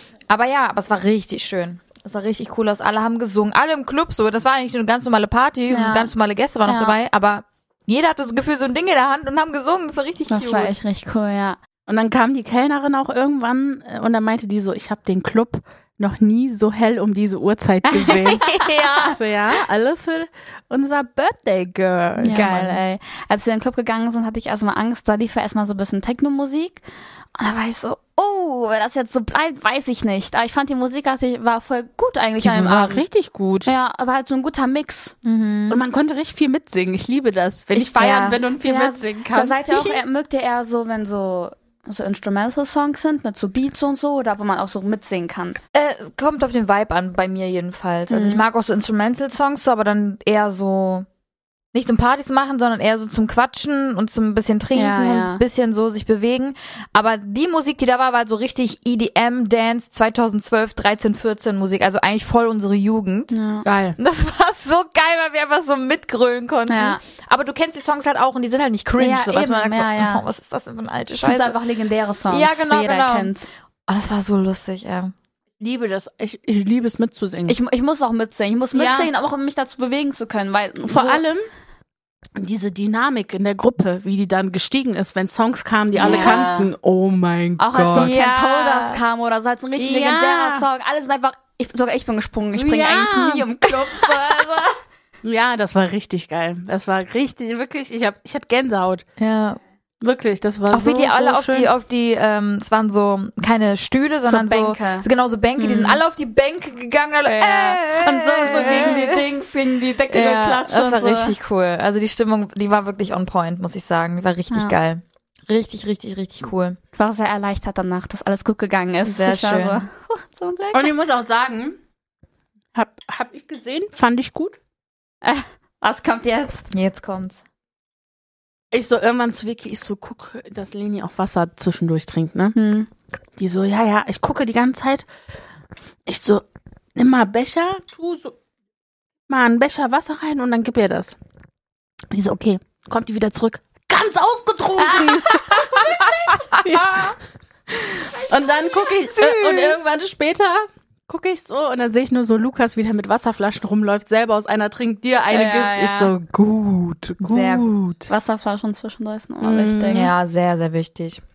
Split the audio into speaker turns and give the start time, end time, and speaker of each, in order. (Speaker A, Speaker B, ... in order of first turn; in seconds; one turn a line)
Speaker A: 0.3-10.8
Speaker B: 5.7-6.1
Speaker B: 6.7-7.0
Speaker B: 10.3-11.6
Speaker C: 11.9-18.5
Speaker B: 17.9-19.2
Speaker A: 18.4-19.1
Speaker C: 19.0-22.8
Speaker B: 22.2-26.8
Speaker B: 27.4-33.1
Speaker C: 32.4-33.7
Speaker B: 33.6-35.2
Speaker A: 35.2-35.8
Speaker C: 35.7-40.0
Speaker B: 37.7-45.6
Speaker A: 45.7-51.1
Speaker B: 48.1-48.4
Speaker A: 51.7-63.3
Speaker B: 54.8-55.4
Speaker B: 63.3-63.7
Speaker C: 63.6-64.0
Speaker A: 64.0-71.6
Speaker B: 66.7-67.0
Speaker B: 69.0-70.2
Speaker B: 71.2-73.5
Speaker A: 72.3-73.3
Speaker A: 73.9-75.1
Speaker C: 75.6-77.6
Speaker B: 77.5-81.2
Speaker C: 78.7-79.1
Speaker C: 80.9-81.5
Speaker C: 82.4-88.1
Speaker B: 86.0-86.7
Speaker A: 86.0-86.5
Speaker B: 87.6-94.8
Speaker A: 87.9-89.0
Speaker C: 89.8-90.7
Speaker C: 92.5-93.5
Speaker C: 95.2-99.0
Speaker A: 99.2-99.6
Speaker C: 100.0-101.7
Speaker A: 100.7-109.2
Speaker B: 104.2-105.1
Speaker B: 105.6-106.0
Speaker B: 107.2-111.3
Speaker A: 110.1-116.8
Speaker B: 117.0-120.9
Speaker A: 119.1-119.9
Speaker C: 120.7-121.8
Speaker C: 122.7-124.6
Speaker B: 125.2-126.7
Speaker A: 126.7-127.4
Speaker C: 128.7-132.6
Speaker B: 132.6-132.9
Speaker C: 133.4-135.1
Speaker C: 136.1-138.4
Speaker C: 139.3-141.2
Speaker C: 142.1-147.1
Speaker B: 145.1-146.2
Speaker A: 146.5-147.1
Speaker C: 147.7-158.1
Speaker B: 148.3-148.9
Speaker A: 149.1-149.8
Speaker A: 155.3-156.1
Speaker A: 157.2-157.7
Speaker B: 158.1-160.1
Speaker C: 159.4-160.1
Speaker A: 159.9-161.2